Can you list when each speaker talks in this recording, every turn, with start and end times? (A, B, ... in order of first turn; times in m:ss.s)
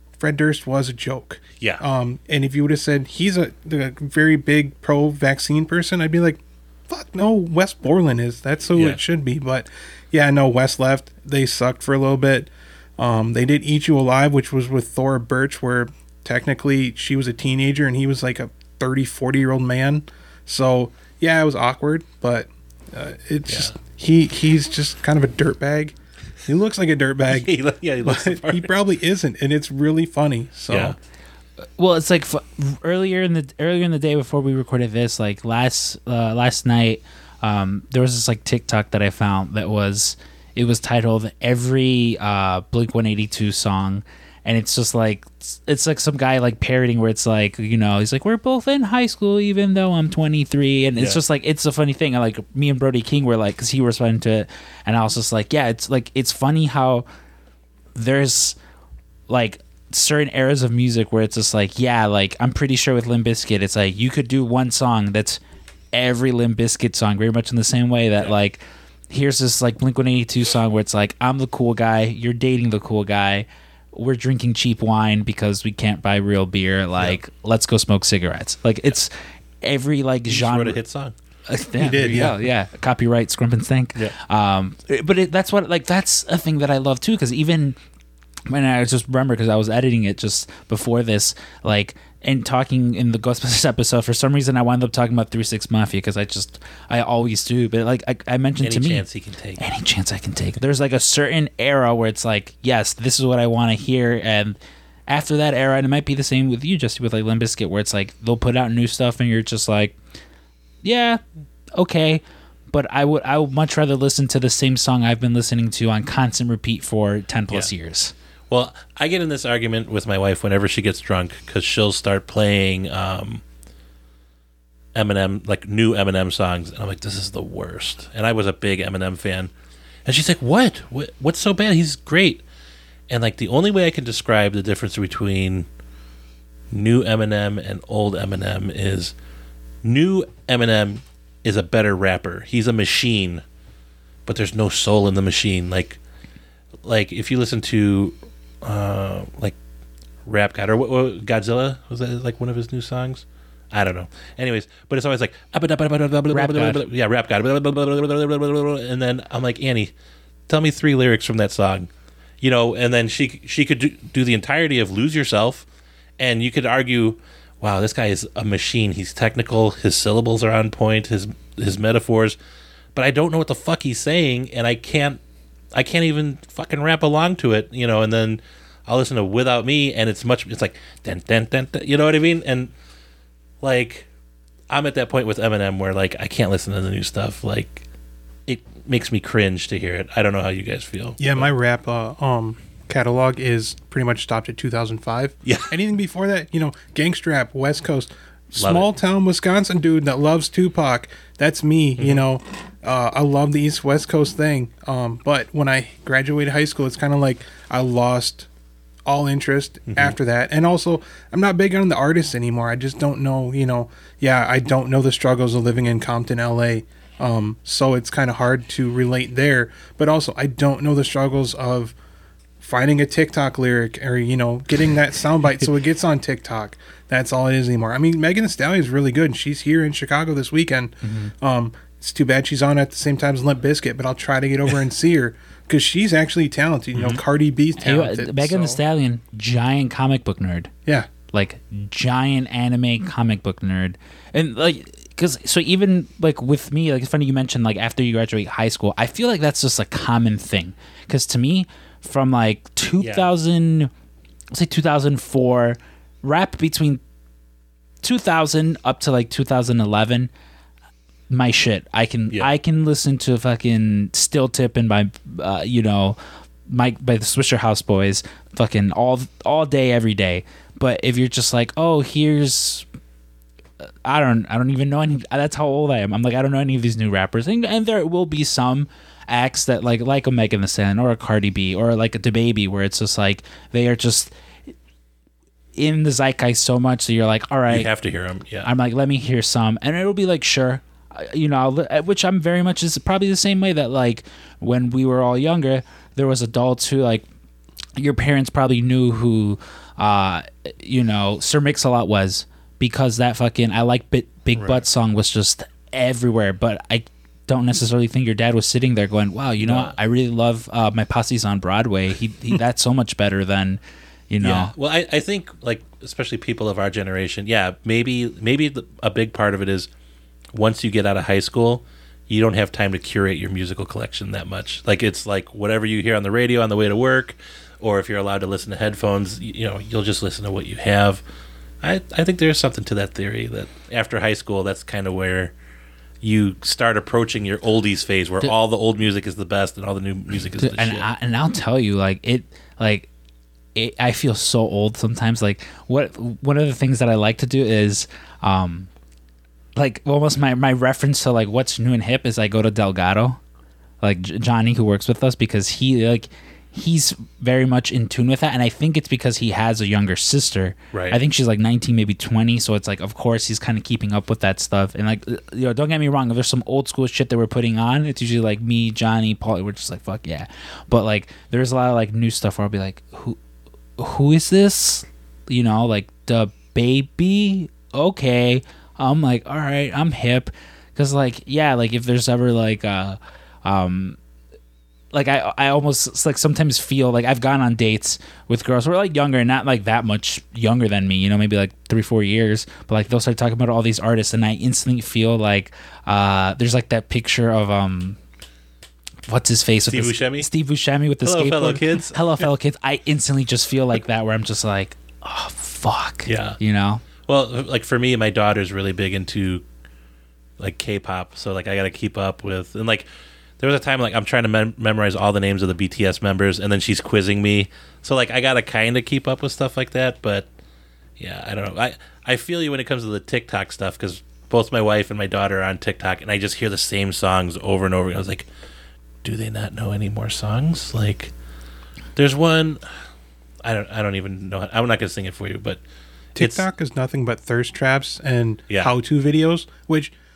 0:00.2-0:31.0 A
0:08.8-0:09.0 B
0:23.5-0:23.8 B
0:27.3-0:28.7 B
0:30.7-0:31.0 B
0:31.8-0:57.1 C
0:58.0-0:58.6 C
0:59.3-1:05.4 C
1:05.9-1:20.8 C
1:20.3-1:21.1 B
1:21.5-1:27.8 C
1:21.8-1:22.4 A
1:28.5-1:39.1 C
1:38.6-1:39.7 B
1:39.6-1:44.6 C
1:45.1-1:50.0 C
1:50.8-1:51.2 C
1:51.8-1:58.1 C
1:58.5-2:03.4 B
2:05.0-2:09.5 B
2:10.0-2:12.4 B
2:13.1-2:15.7 B
2:16.7-2:19.1 B
2:19.8-2:23.4 B
2:24.3-2:26.0 B
2:26.8-2:29.6 B
2:30.3-2:39.9 B
2:36.3-2:36.8 C
2:40.5-2:41.9 B
2:42.4-2:45.7 B
2:46.2-2:52.4 B
2:53.0-2:55.2 B
2:55.7-3:02.7 B
3:03.6-3:04.1 B
3:04.7-3:07.8 B
3:08.5-3:11.5 B
3:11.2-3:28.5 A
3:15.4-3:15.8 B
3:18.6-3:18.9 B
3:22.0-3:22.2 B
3:29.0-3:41.9 A
3:29.9-3:30.2 B
3:42.6-3:58.8 A
3:51.0-3:51.3 C
3:57.0-3:57.2 B
3:57.8-4:00.7 C
4:01.3-4:13.9 C
4:13.0-4:13.3 B
4:14.5-4:17.0 C
4:18.0-4:20.3 C
4:21.3-4:32.9 C
4:33.8-4:44.3 C
4:45.8-4:47.9 C
4:47.7-4:48.7 B
4:48.6-4:57.3 C
4:58.0-5:14.7 C
5:09.6-5:10.0 B
5:14.4-5:19.9 B
5:20.5-5:31.2 B
5:31.8-5:35.5 B
5:36.2-5:41.1 B
5:40.6-5:43.1 C
5:43.8-5:48.9 C
5:49.8-5:53.4 C
5:54.0-6:13.4 C
6:00.9-6:01.2 B
6:14.0-6:24.2 C
6:25.1-6:38.2 C
6:39.3-6:47.0 C
6:39.9-6:40.5 B
6:41.2-6:42.5 B
6:46.3-6:46.6 B
6:47.3-6:49.6 B
6:50.6-6:53.1 B
6:53.6-7:00.5 B
7:01.2-7:08.5 B
7:09.2-7:11.3 B
7:12.2-7:12.9 B
7:13.6-7:15.8 B
7:16.4-7:16.7 B
7:16.4-7:20.1 A